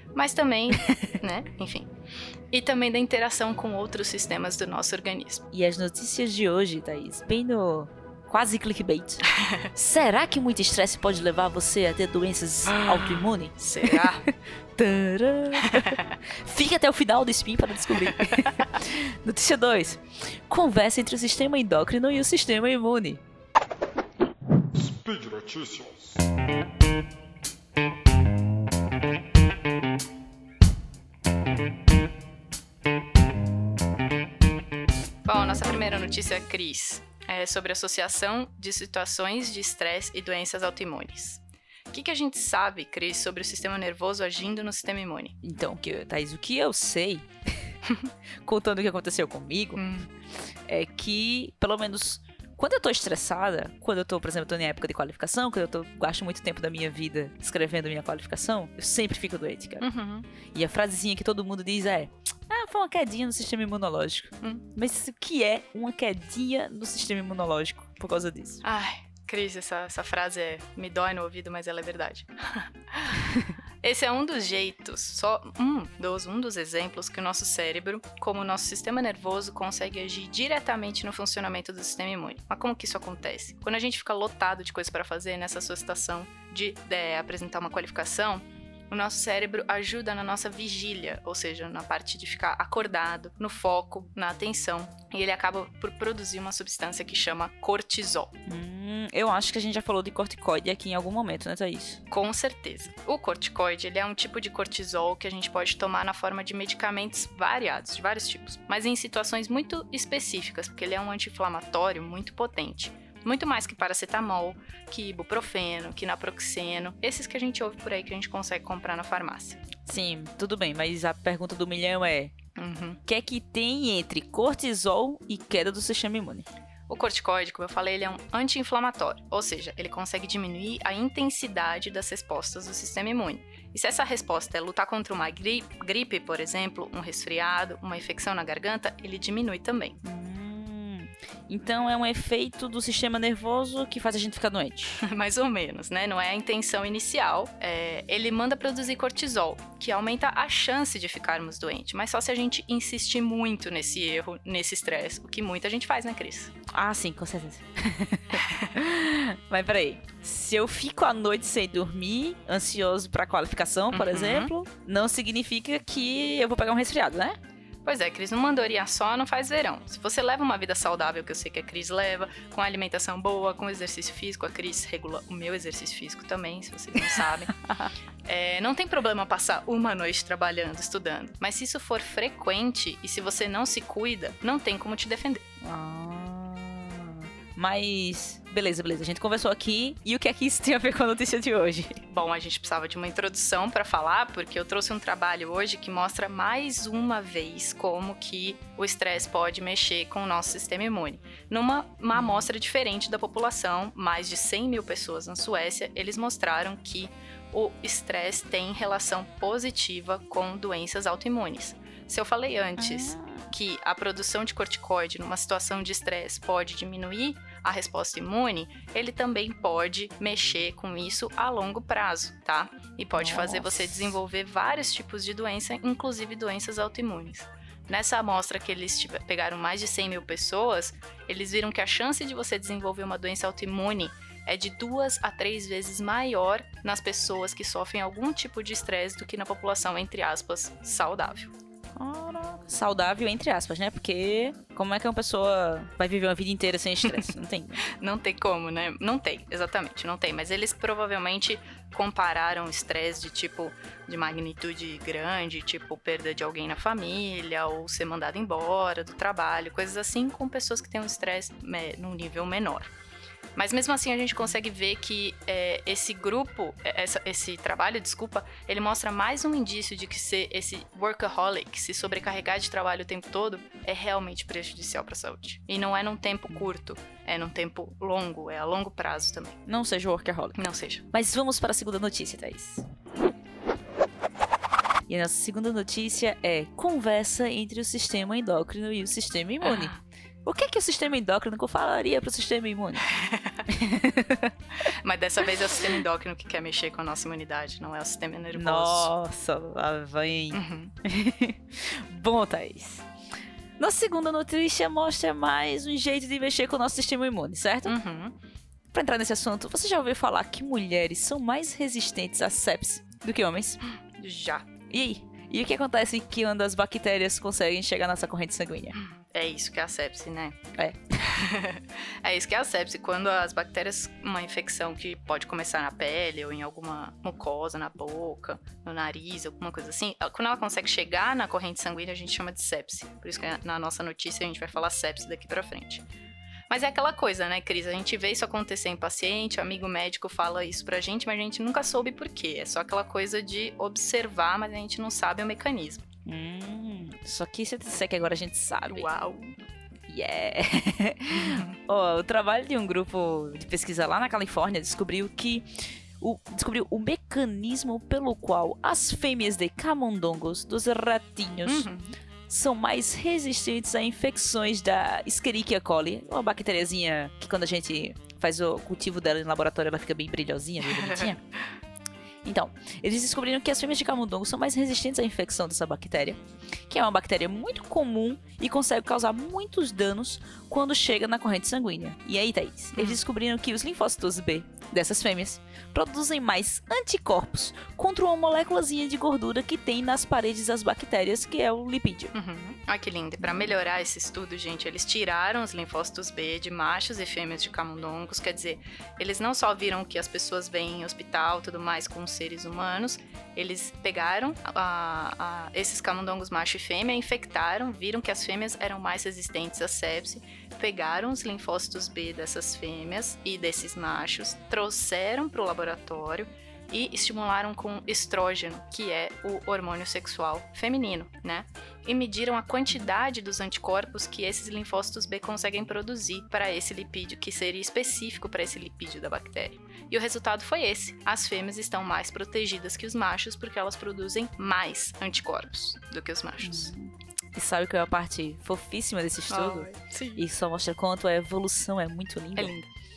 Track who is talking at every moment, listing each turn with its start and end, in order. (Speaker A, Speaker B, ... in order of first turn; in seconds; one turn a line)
Speaker A: 0.1-1.9
Speaker A: 2.5-5.4
Speaker B: 5.5-23.2
Speaker A: 13.6-14.2
Speaker A: 15.6-16.1
Speaker A: 18.2-18.7
Speaker A: 35.2-45.3
Speaker B: 45.4-47.3
Speaker B: 48.4-49.8
Speaker A: 49.8-50.1
Speaker B: 50.7-59.9
Speaker A: 59.8-60.3
Speaker B: 60.5-68.6
Speaker A: 68.6-73.2
Speaker A: 73.8-98.3
Speaker B: 98.5-102.0
Speaker A: 102.1-119.6
Speaker B: 119.8-122.3
Speaker A: 122.5-123.0
Speaker B: 123.1-126.5
Speaker A: 126.9-140.0
Speaker B: 140.0-145.0
Speaker A: 145.0-156.5
Speaker B: 156.7-167.3
Speaker A: 158.3-158.7
Speaker A: 163.9-164.5
Speaker A: 167.8-177.5
Speaker A: 178.2-185.4
Speaker B: 185.6-192.0
Speaker A: 192.1-241.5
Speaker B: 202.1-202.4
Speaker B: 212.8-213.5
Speaker B: 223.2-224.2
Speaker B: 241.9-247.8
Speaker A: 247.0-247.3
Speaker A: 247.8-262.9
Speaker A: 263.5-279.6
Speaker B: 279.6-280.6
Speaker A: 280.5-281.0
Speaker B: 281.1-282.8
Speaker B: 285.1-293.1
Speaker A: 289.6-290.0
Speaker A: 293.1-293.6
Speaker B: 293.7-294.5
Speaker A: 294.8-299.1
Speaker B: 298.5-303.1
Speaker A: 300.5-300.9
Speaker B: 303.8-307.9
Speaker A: 307.9-308.3
Speaker B: 308.9-313.8
Speaker A: 314.1-314.7
Speaker B: 314.9-318.9
Speaker A: 318.9-320.6
Speaker B: 320.7-321.0
Speaker A: 321.2-336.0
Speaker A: 336.7-346.1
Speaker B: 346.2-349.1
Speaker A: 348.9-349.5
Speaker B: 350.1-361.9
Speaker A: 351.3-351.8
Speaker A: 361.6-362.1
Speaker B: 362.5-371.4
Speaker A: 370.9-371.3
Speaker B: 372.4-392.3
Speaker A: 382.9-383.2
Speaker A: 392.3-436.9
Speaker B: 436.6-442.7
Speaker A: 439.5-440.4
Speaker A: 442.6-442.9